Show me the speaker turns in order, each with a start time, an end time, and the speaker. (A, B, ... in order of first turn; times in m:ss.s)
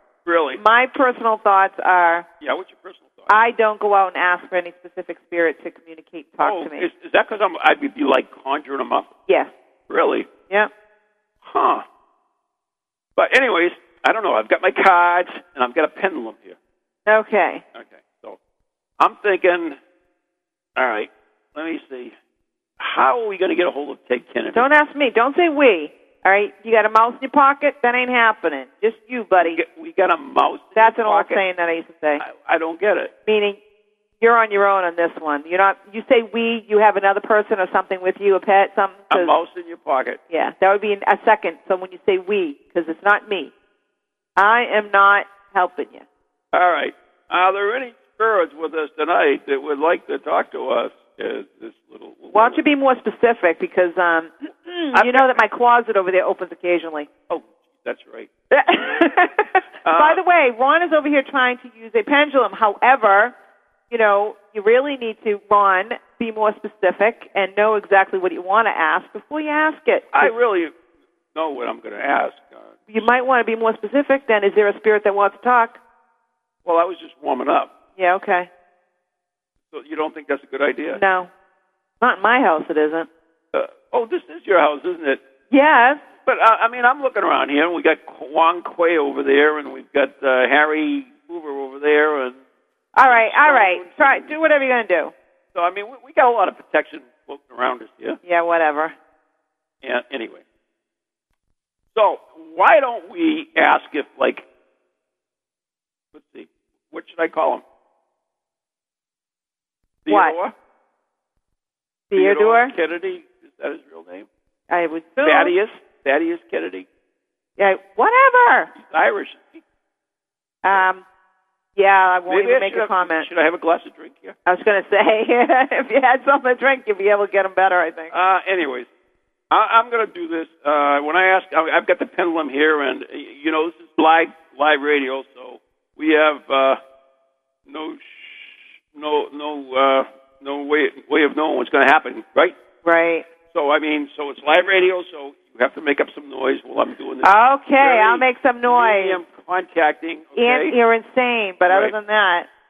0:00.2-0:00.6 A
0:00.5-0:02.2 B
0:02.4-0:03.4 A
0:03.3-0:06.9 B
0:06.4-0:09.1 A
0:09.9-0:10.3 A
0:11.4-0:11.8 A
0:13.2-0:16.6 A
0:17.0-0:17.6 B
0:17.7-0:18.4 A
0:19.0-0:19.8 A
0:20.8-0:22.1 A
0:22.8-0:24.7 A
0:24.5-0:29.6 B
0:29.4-0:31.4 A
0:30.8-0:32.2 B
0:32.2-0:33.1 A
0:33.2-0:33.6 B
0:34.2-0:39.3 B
0:39.1-0:40.2 A
0:40.3-0:43.5 B
0:44.4-0:46.0 B
0:46.5-0:52.6 A
0:52.3-0:57.1 B
0:54.9-0:55.4 A
0:57.3-0:58.3 A
0:58.5-1:03.3 B
0:59.8-1:00.2 A
1:03.9-1:10.3 B
1:10.1-1:10.7 A
1:11.3-1:13.1 A
1:12.9-1:15.8 B
1:16.6-1:17.7 A
1:18.0-1:18.5 B
1:19.7-1:21.0 A
1:20.9-1:21.3 B
1:22.0-1:23.1 B
1:23.5-1:25.2 A
1:25.5-1:26.0 B
1:26.2-1:32.4 A
1:32.9-1:35.1 B
1:33.1-1:34.4 A
1:35.5-1:38.2 A
1:38.2-1:38.9 B
1:39.8-1:40.4 A
1:41.9-1:44.4 A
1:46.1-1:47.6 A
1:50.0-1:50.5 A
1:50.1-1:50.4 B
1:52.1-1:52.7 B
1:52.1-1:54.3 A
1:54.7-1:55.5 B
1:55.2-1:56.9 A
1:57.6-1:58.7 B
1:58.7-1:59.6 A
2:00.6-2:01.0 B
2:01.8-2:03.3 B
2:02.3-2:04.4 A
2:04.4-2:08.1 B
2:08.1-2:08.9 A
2:09.5-2:16.8 A
2:17.7-2:22.6 A
2:22.8-2:23.2 B
2:23.5-2:30.8 A
2:27.2-2:29.2 B
2:30.4-2:32.5 B
2:31.7-2:31.9 A